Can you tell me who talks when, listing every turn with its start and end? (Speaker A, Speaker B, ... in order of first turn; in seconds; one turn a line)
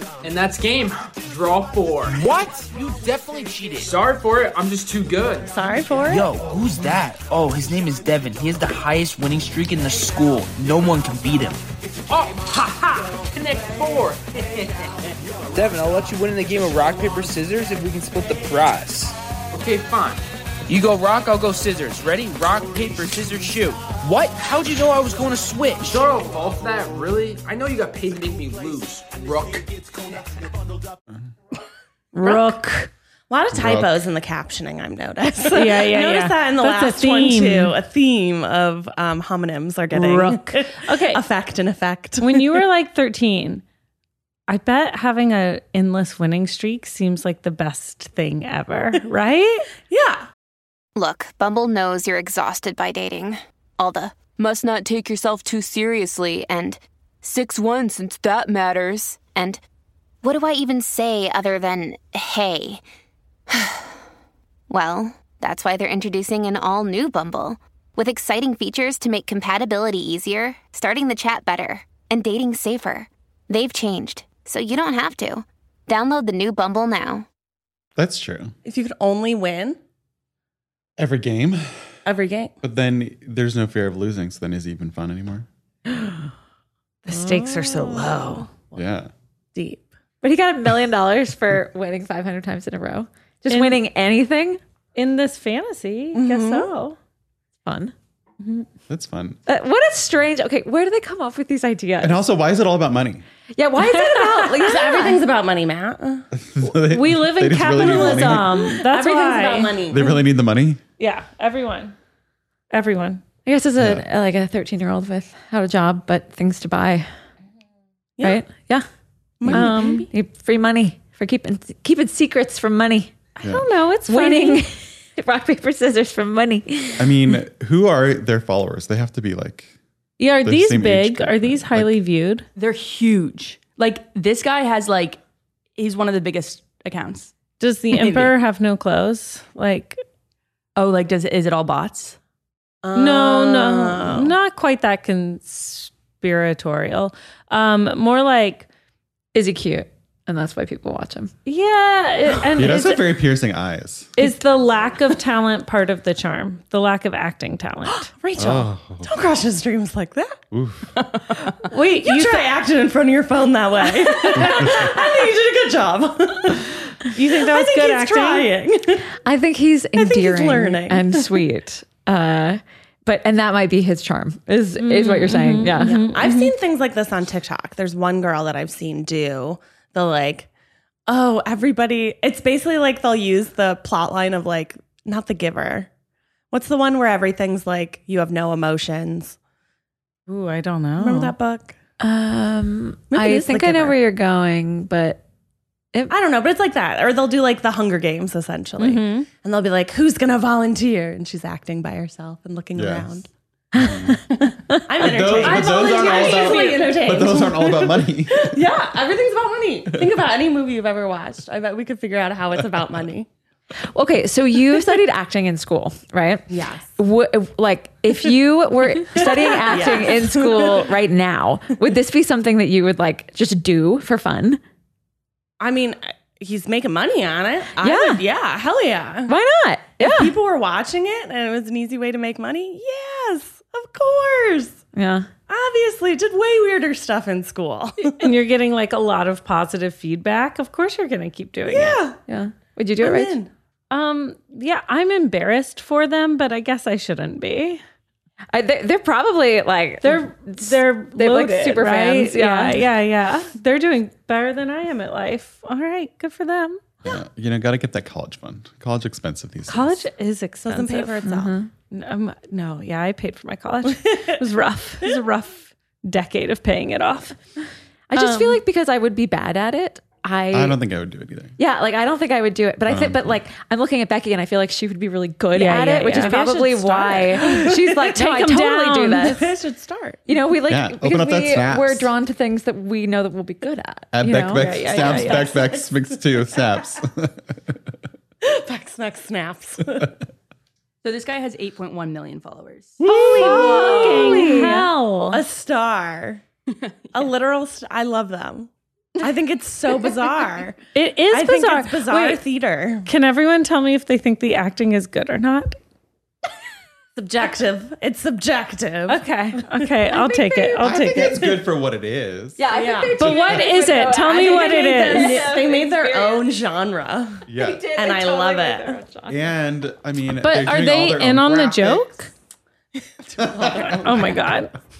Speaker A: 0.2-2.7
Speaker B: 2.1-3.9
Speaker A: 3.7-5.5
Speaker C: 5.5-6.3
Speaker B: 6.0-11.6
Speaker A: 12.1-14.9
Speaker B: 15.5-19.1
Speaker A: 19.5-20.2
Speaker B: 20.7-26.1
Speaker A: 25.8-30.4
Speaker C: 32.1-32.6
Speaker D: 32.2-32.9
Speaker C: 33.3-42.6
Speaker E: 33.5-33.9
Speaker D: 35.5-37.7
Speaker D: 39.9-41.2
Speaker D: 42.2-43.6
Speaker D: 44.5-49.7
Speaker C: 49.9-50.2
Speaker F: 51.0-59.6
Speaker F: 60.2-62.8
Speaker F: 64.7-77.2
Speaker E: 78.0-78.5
Speaker C: 78.6-79.8
Speaker E: 81.0-81.7
Speaker C: 82.0-82.5
Speaker E: 82.6-85.5
Speaker D: 87.1-88.5
Speaker C: 87.1-88.8
Speaker E: 88.7-89.1
Speaker C: 89.5-89.9
Speaker G: 90.2-94.6
Speaker D: 93.5-93.8
Speaker D: 94.9-97.0
Speaker C: 96.1-96.7
Speaker G: 97.7-97.9
Speaker E: 98.9-99.4
Speaker G: 99.5-102.2
Speaker E: 102.0-103.2
Speaker G: 103.5-105.2
Speaker D: 104.1-104.5
Speaker C: 104.6-106.3
Speaker E: 106.3-108.6
Speaker D: 106.6-109.7
Speaker C: 107.8-110.2
Speaker E: 109.9-110.8
Speaker D: 111.0-111.9
Speaker D: 112.7-113.2
Speaker G: 113.5-117.1
Speaker E: 113.8-114.0
Speaker G: 118.2-118.8
Speaker C: 119.4-120.1
Speaker G: 119.4-123.1
Speaker D: 119.5-120.1
Speaker D: 123.4-124.6
Speaker G: 124.1-127.1
Speaker E: 127.0-129.7
Speaker D: 130.2-132.5
Speaker E: 130.4-131.9
Speaker H: 132.5-135.2
Speaker H: 135.8-137.3
Speaker D: 137.6-140.0
Speaker H: 137.9-138.3
Speaker H: 140.8-142.2
Speaker C: 142.8-144.3
Speaker D: 142.9-148.7
Speaker G: 149.3-151.3
Speaker D: 151.4-153.1
Speaker E: 152.5-154.1
Speaker D: 154.2-158.1
Speaker C: 157.8-160.4
Speaker E: 158.4-159.1
Speaker E: 160.5-160.9
Speaker C: 161.1-169.1
Speaker D: 161.6-162.5
Speaker D: 164.2-164.6
Speaker D: 167.1-168.5
Speaker G: 169.2-176.0
Speaker C: 170.0-171.4
Speaker D: 174.8-176.5
Speaker C: 175.8-180.5
Speaker C: 181.1-185.9
Speaker C: 186.5-189.3
Speaker D: 190.3-191.3
Speaker C: 191.0-191.7
Speaker G: 192.0-195.2
Speaker C: 193.1-194.0
Speaker C: 196.1-203.3
Speaker D: 198.8-199.3
Speaker E: 202.7-203.2
Speaker G: 203.7-204.2
Speaker E: 203.7-204.2
Speaker C: 204.8-213.3
Speaker E: 205.0-208.6
Speaker D: 205.2-207.3
Speaker G: 213.9-224.6
Speaker C: 216.5-216.9
Speaker C: 219.1-220.9
Speaker C: 225.6-229.3
Speaker G: 227.8-228.2
Speaker G: 229.3-230.3
Speaker C: 230.0-234.8
Speaker G: 234.9-235.3
Speaker C: 235.5-238.2
Speaker D: 238.1-242.0
Speaker C: 241.7-242.2
Speaker G: 242.3-243.3
Speaker C: 243.0-243.5
Speaker D: 243.9-247.8
Speaker G: 248.5-252.8
Speaker D: 250.0-256.8
Speaker E: 257.0-260.0
Speaker D: 259.7-261.2
Speaker C: 260.6-261.5
Speaker G: 261.2-261.7
Speaker D: 261.9-267.4
Speaker C: 263.9-264.4
Speaker G: 268.1-270.8
Speaker D: 268.1-268.6
Speaker E: 270.5-271.5
Speaker G: 271.6-279.5
Speaker E: 272.9-273.4
Speaker D: 275.5-277.2
Speaker C: 276.1-278.1
Speaker D: 278.1-279.4
Speaker C: 279.2-280.2
Speaker G: 280.3-284.7
Speaker E: 280.7-282.1
Speaker E: 284.1-287.8
Speaker D: 284.6-285.5
Speaker C: 284.8-285.9
Speaker C: 288.4-290.1
Speaker H: 291.0-293.0
Speaker C: 293.0-294.8
Speaker G: 293.0-294.9
Speaker D: 293.2-295.4
Speaker C: 295.3-296.4
Speaker C: 297.1-300.8
Speaker D: 300.9-302.4
Speaker C: 301.3-303.1
Speaker D: 303.1-305.8
Speaker C: 307.1-309.2
Speaker D: 309.1-311.6
Speaker G: 310.1-311.3
Speaker E: 310.8-312.6
Speaker G: 312.6-316.5
Speaker C: 312.7-313.5
Speaker D: 313.1-315.6
Speaker C: 314.3-319.0
Speaker E: 317.5-317.9
Speaker G: 317.5-319.5
Speaker E: 319.3-322.1
Speaker D: 320.4-322.3
Speaker C: 323.0-324.5
Speaker E: 323.4-324.3
Speaker D: 323.9-324.7